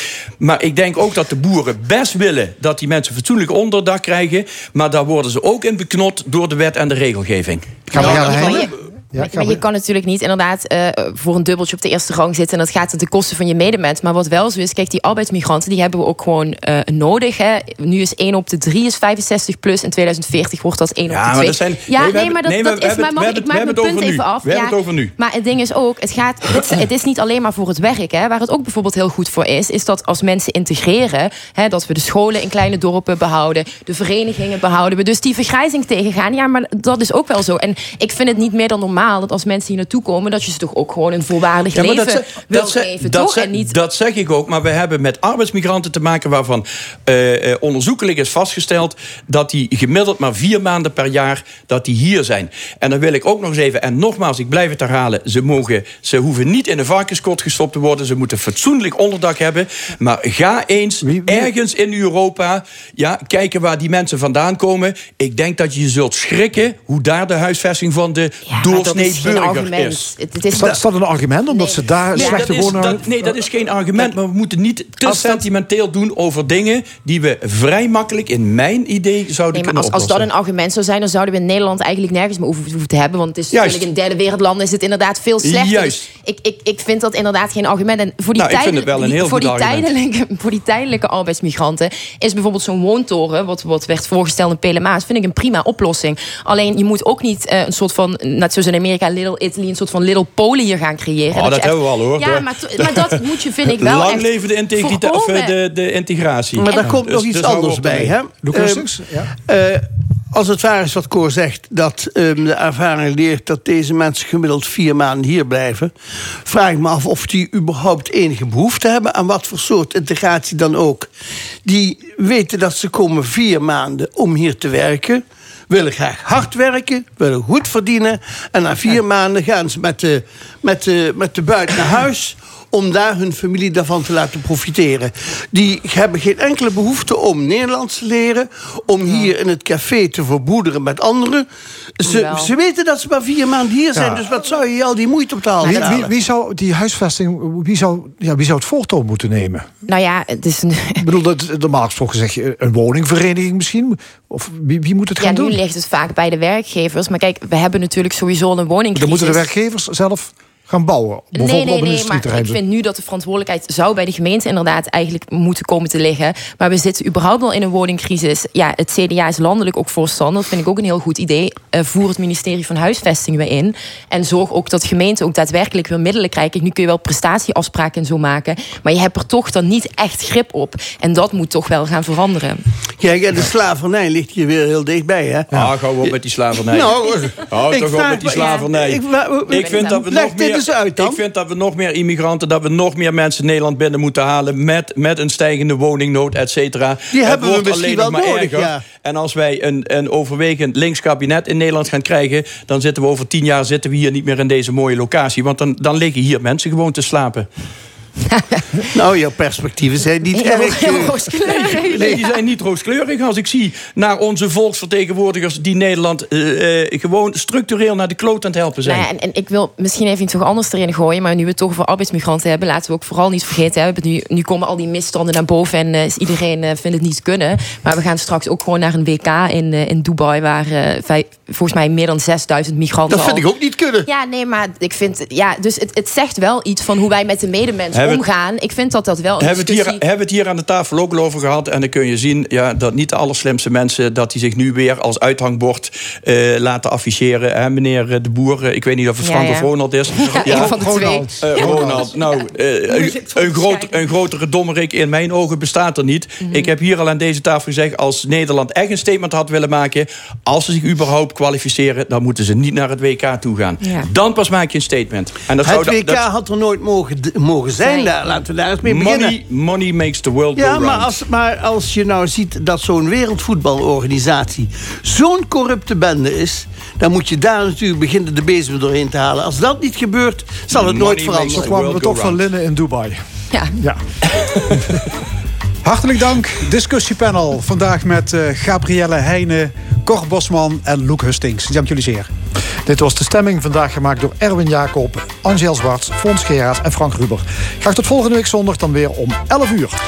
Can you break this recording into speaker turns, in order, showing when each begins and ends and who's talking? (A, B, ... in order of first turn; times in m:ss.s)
0:00.4-0:08.6 A
0:07.9-0:09.6 B
0:07.9-0:43.7 C
0:21.1-0:25.1 A
0:41.7-1:10.2 A
1:01.0-1:01.5 B
1:08.4-1:10.8 C
1:10.5-1:13.0 B
1:11.5-1:12.9 C
1:12.2-1:20.3 A
1:15.0-1:15.4 C
1:19.5-1:45.6 C
1:23.5-1:23.9 A
1:25.4-1:26.1 A
1:28.4-1:29.9 A
1:41.3-1:48.2 A
1:46.6-1:48.9 D
1:46.6-1:47.0 C
1:48.4-1:49.3 B
1:49.4-2:01.1 D
2:01.6-2:21.5 D
2:22.0-2:26.1 D
2:22.1-2:22.5 C
2:24.0-2:24.3 B
2:25.6-2:29.7 B
2:29.9-2:31.1 C
2:31.0-2:35.6 B
2:35.2-2:39.4 C
2:39.0-2:42.6 B
2:41.3-3:02.7 C
3:03.0-3:11.2 D
3:05.5-3:06.9 A
3:07.5-3:27.5 A
3:09.5-3:10.0 C
3:17.1-3:18.9 D
3:28.3-3:28.9 C
3:28.9-3:31.2 D
3:30.3-3:32.4 C
3:31.4-3:39.1 A
3:38.8-3:53.4 C
3:53.1-3:54.0 D
3:54.1-4:00.0 C
3:57.9-3:58.2 A
3:59.4-4:10.8 A
4:09.2-4:14.2 C
4:10.2-4:12.0 B
4:11.4-4:26.2 A
4:16.4-4:16.8 C
4:23.8-4:24.1 C
4:25.6-4:29.4 D
4:27.8-4:28.3 C
4:28.8-4:31.1 A
4:30.6-4:41.7 D
4:40.7-4:42.4 A
4:41.1-4:45.1 B
4:45.8-4:52.3 E
4:52.7-5:00.0 B